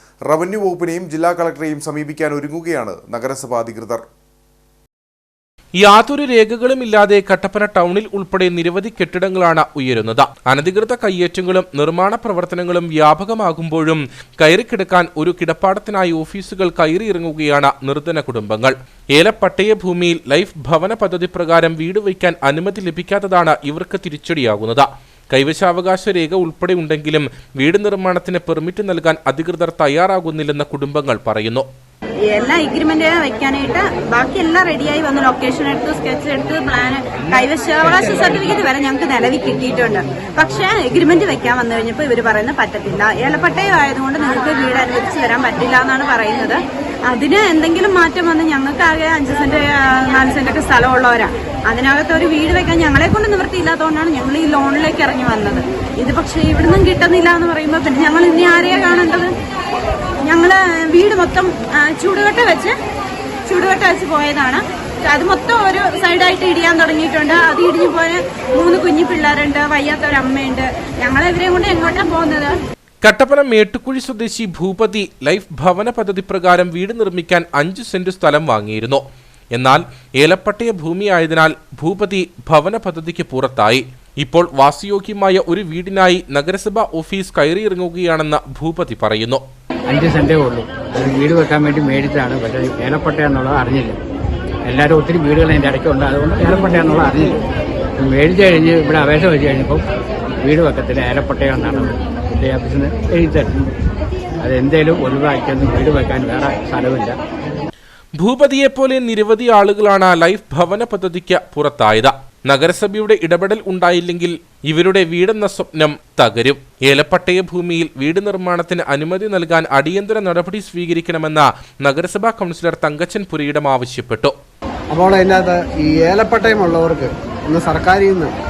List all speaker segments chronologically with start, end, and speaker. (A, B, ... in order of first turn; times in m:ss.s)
0:00.3-0:04.0 A
0:05.8-0:31.7 B
0:32.2-0:59.3 C
1:00.2-1:02.7 C
1:03.5-1:12.6 C
1:13.0-1:19.0 B
1:19.5-1:29.4 B
1:29.9-1:34.0 D
1:34.6-1:37.4 D
1:38.0-1:39.8 D
1:40.4-1:43.7 D
1:44.4-1:47.2 D
1:48.2-2:04.3 B
2:04.9-2:08.3 E